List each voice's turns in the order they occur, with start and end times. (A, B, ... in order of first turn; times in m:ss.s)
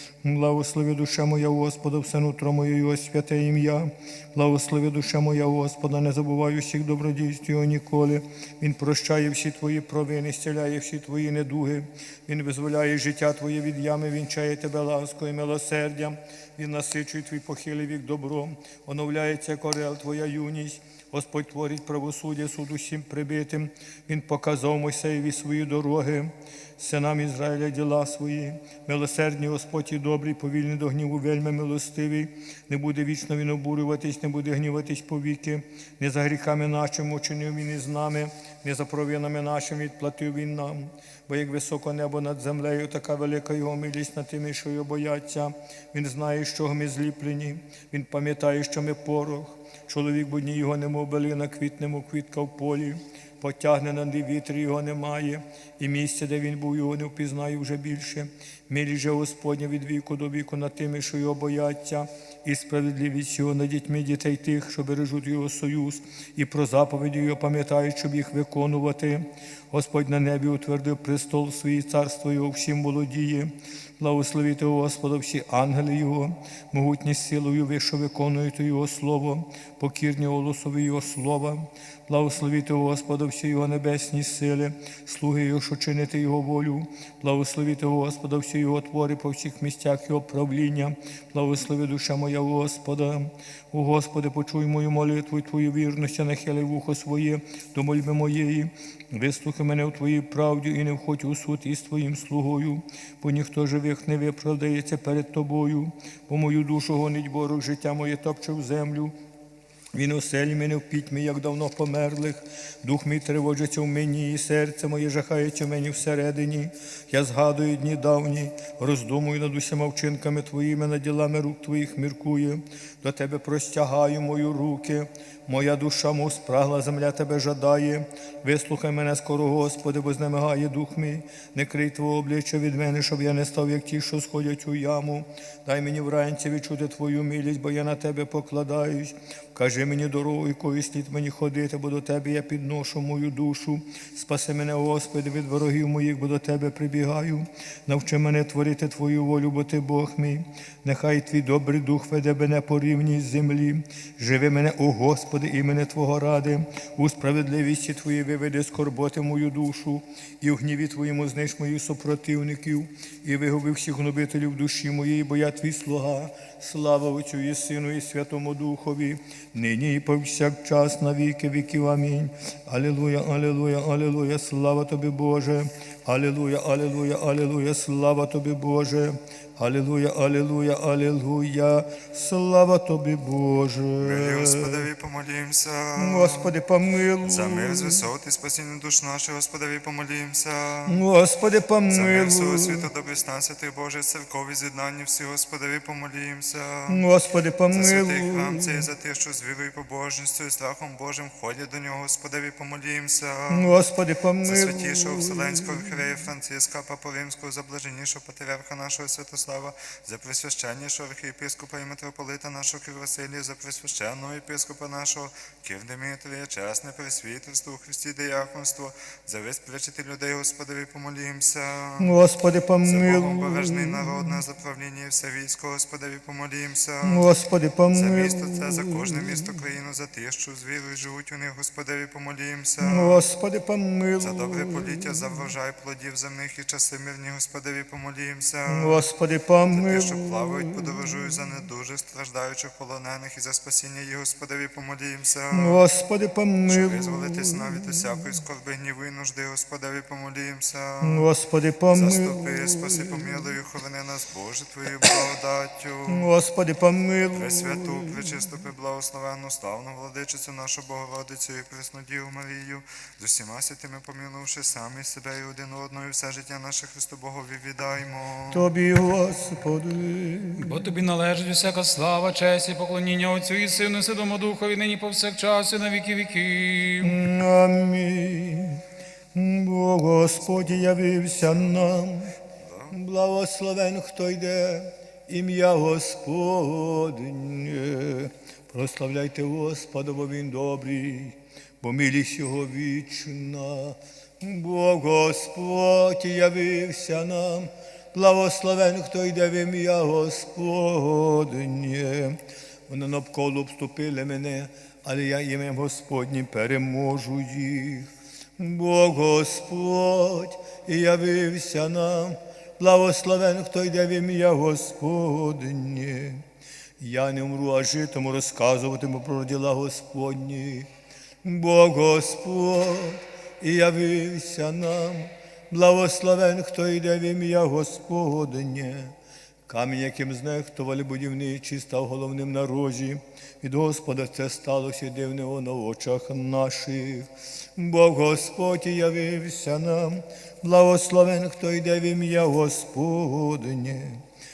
0:00.2-1:49.1 A
1:49.9-3:04.9 A
3:04.0-3:06.5 B
3:06.0-3:08.1 A
3:07.3-3:11.0 B
3:10.8-3:12.9 A
3:11.9-3:17.1 B
3:16.9-3:18.9 A
3:17.7-3:23.7 B
3:23.5-3:26.0 A
3:24.4-3:42.1 B
3:42.0-3:44.4 A
3:42.8-3:47.3 B
3:47.0-3:49.6 A
3:47.9-3:53.2 B
3:52.8-3:55.5 A
3:54.2-3:59.1 B
3:58.7-4:01.5 A
3:59.7-4:05.8 B
4:05.5-4:08.3 A
4:06.7-4:11.3 B
4:11.0-4:13.5 A
4:11.9-4:16.3 B
4:16.1-4:18.4 A
4:17.3-4:28.7 B
4:28.5-4:30.9 A
4:30.6-4:37.1 C
4:37.0-4:38.8 A
4:39.3-4:42.4 A
4:42.6-4:42.9 B
4:42.9-5:16.4 A
5:17.0-5:20.9 A
5:21.4-5:29.2 A
5:29.7-5:44.2 A